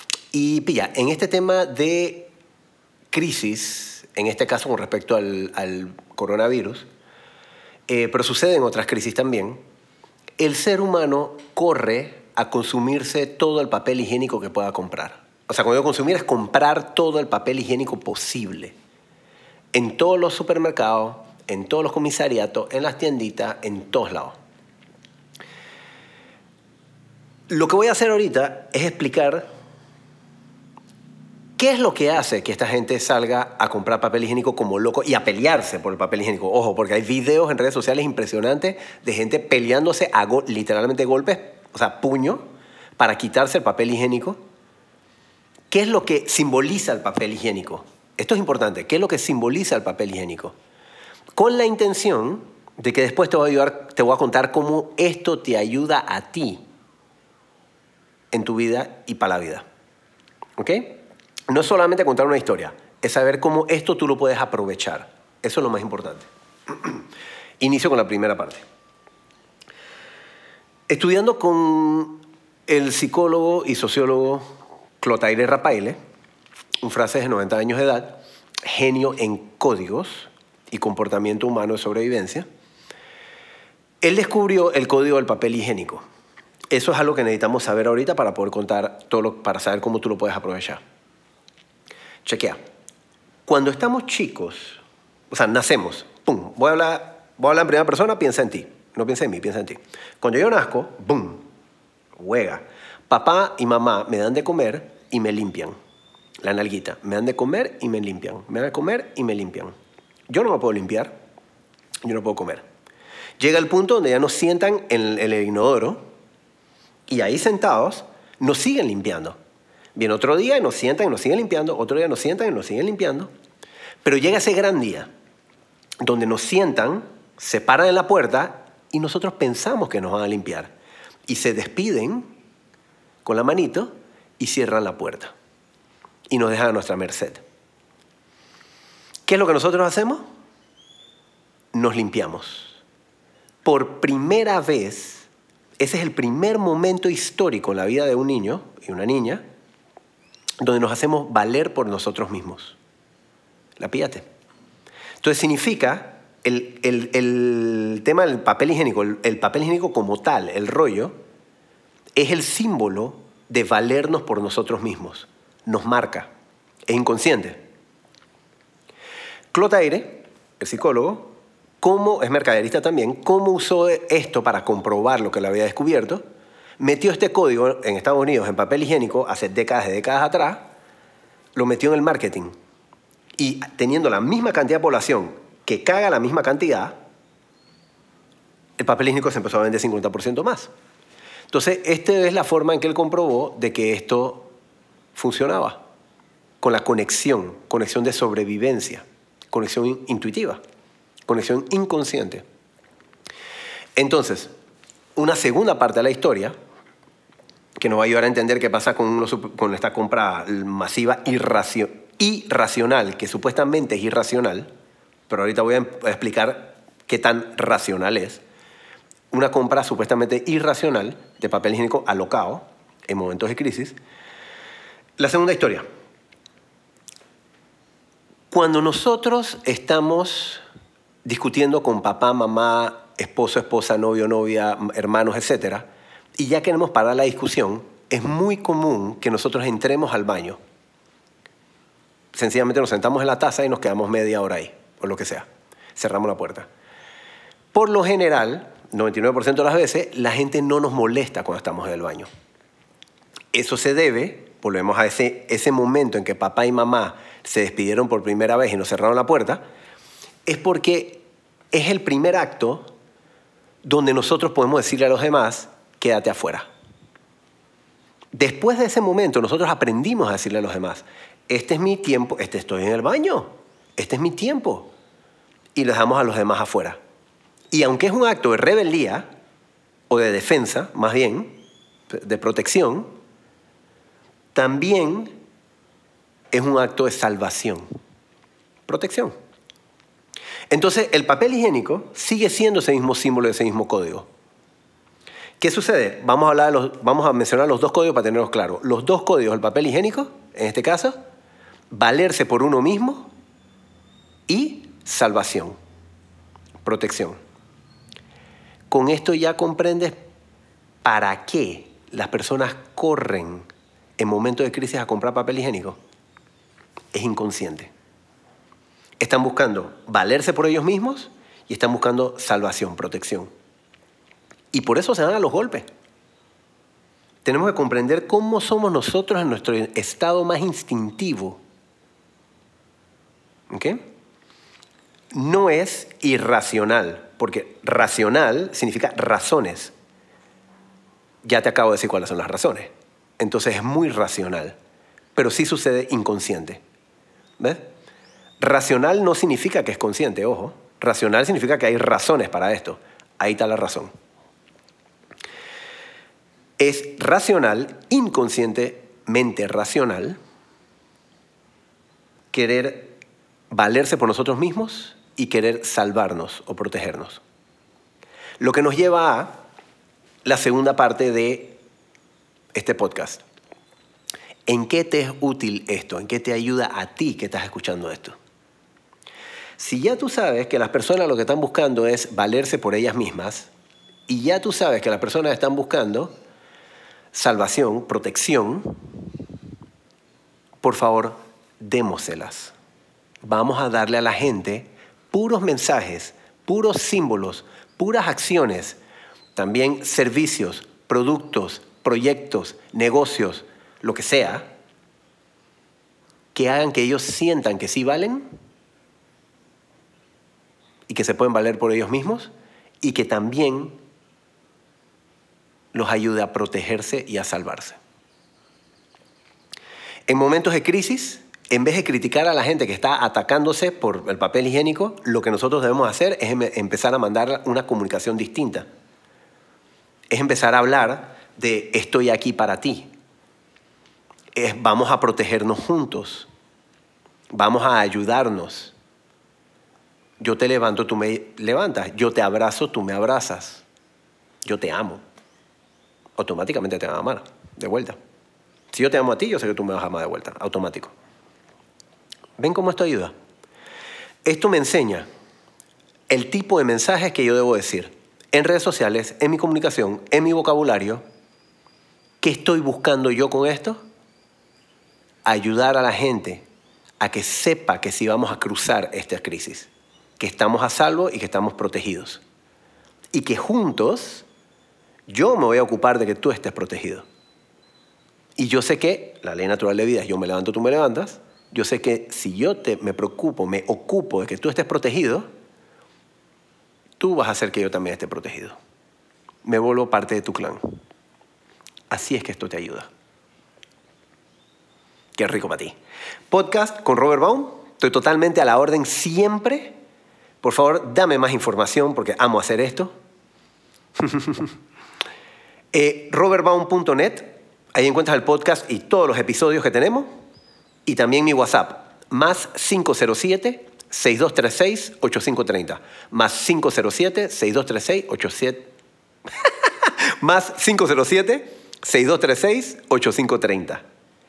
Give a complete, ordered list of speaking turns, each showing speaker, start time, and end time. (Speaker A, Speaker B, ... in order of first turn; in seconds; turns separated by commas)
Speaker A: 0.3-2.3, Speaker A: 3.1-6.9, Speaker A: 7.9-9.6, Speaker A: 10.4-18.7, Speaker A: 19.7-24.4, Speaker A: 27.5-29.5, Speaker A: 31.6-42.4, Speaker A: 43.0-44.4, Speaker A: 45.7-50.5, Speaker A: 51.4-56.6, Speaker A: 58.3-59.6, Speaker A: 60.6-67.0, Speaker A: 67.6-68.6, Speaker A: 70.9-74.4, Speaker A: 75.0-76.0, Speaker A: 76.8-82.5, Speaker A: 84.0-86.0, Speaker A: 86.7-90.8, Speaker A: 92.2-92.6, Speaker A: 93.5-101.4, Speaker A: 102.2-105.7, Speaker A: 106.4-109.7, Speaker A: 110.3-111.2, Speaker A: 112.0-112.6, Speaker A: 113.4-116.0, Speaker A: 117.1-119.4, Speaker A: 119.9-123.3, Speaker A: 124.0-125.1, Speaker A: 126.0-130.7, Speaker A: 131.3-132.3, Speaker A: 133.2-135.3, Speaker A: 136.3-137.4, Speaker A: 139.3-140.2, Speaker A: 141.7-142.8, Speaker A: 143.6-145.3, Speaker A: 145.8-149.4, Speaker A: 150.6-152.8, Speaker A: 153.8-154.2, Speaker A: 155.2-161.1, Speaker A: 162.2-166.3, Speaker A: 166.9-167.6, Speaker A: 169.5-176.2, Speaker A: 176.8-180.7, Speaker A: 181.6-182.5, Speaker A: 183.4-187.0, Speaker A: 188.8-190.7, Speaker A: 191.5-194.5, Speaker A: 195.1-195.8, Speaker A: 196.6-200.6, Speaker A: 201.3-202.4, Speaker A: 203.9-204.5, Speaker A: 205.2-206.5, Speaker A: 207.8-214.7, Speaker A: 215.3-218.4, Speaker A: 219.3-224.0, Speaker A: 225.2-225.8, Speaker A: 228.5-230.6, Speaker A: 231.2-240.6, Speaker A: 242.3-246.7, Speaker A: 247.7-252.3, Speaker A: 253.5-259.6, Speaker A: 260.4-262.9, Speaker A: 263.8-266.7, Speaker A: 268.3-274.9, Speaker A: 275.7-277.0, Speaker A: 277.7-279.3, Speaker A: 280.1-281.6, Speaker A: 282.1-283.1, Speaker A: 284.5-285.3, Speaker A: 286.5-287.9, Speaker A: 288.9-289.3, Speaker A: 290.7-294.3, Speaker A: 295.6-301.2, Speaker A: 301.9-303.3, Speaker A: 304.5-305.8, Speaker A: 306.8-307.4, Speaker A: 308.9-310.1, Speaker A: 311.0-316.0, Speaker A: 317.1-317.9, Speaker A: 319.2-323.5, Speaker A: 324.7-325.9, Speaker A: 327.4-331.6, Speaker A: 333.7-334.0, Speaker A: 335.3-339.9, Speaker A: 341.4-344.8, Speaker A: 345.4-346.8, Speaker A: 348.6-354.1, Speaker A: 356.8-360.4, Speaker A: 362.5-363.1, Speaker A: 363.7-367.4, Speaker A: 368.6-369.6, Speaker A: 370.4-371.8, Speaker A: 372.7-373.4, Speaker A: 374.7-378.4, Speaker A: 379.8-383.7, Speaker A: 384.3-386.3, Speaker A: 387.3-389.0, Speaker A: 390.8-392.7, Speaker A: 393.4-399.0, Speaker A: 399.5-404.7, Speaker A: 406.5-408.5, Speaker A: 411.1-412.5, Speaker A: 413.0-414.0, Speaker A: 415.9-418.0, Speaker A: 420.3-428.9, Speaker A: 430.3-433.1, Speaker A: 434.5-436.5, Speaker A: 437.5-438.9, Speaker A: 440.4-443.8, Speaker A: 444.6-445.2, Speaker A: 446.4-448.1, Speaker A: 448.9-451.1, Speaker A: 452.6-453.3, Speaker A: 454.4-455.3, Speaker A: 456.3-461.2, Speaker A: 462.4-464.0, Speaker A: 465.4-466.6, Speaker A: 467.2-472.4, Speaker A: 473.3-474.4, Speaker A: 475.3-477.2, Speaker A: 478.6-485.5, Speaker A: 487.2-488.8, Speaker A: 489.6-491.0, Speaker A: 492.1-493.1, Speaker A: 495.4-495.9, Speaker A: 496.5-499.9, Speaker A: 500.6-503.1, Speaker A: 504.2-504.7, Speaker A: 505.9-510.3, Speaker A: 511.1-518.9, Speaker A: 519.6-524.0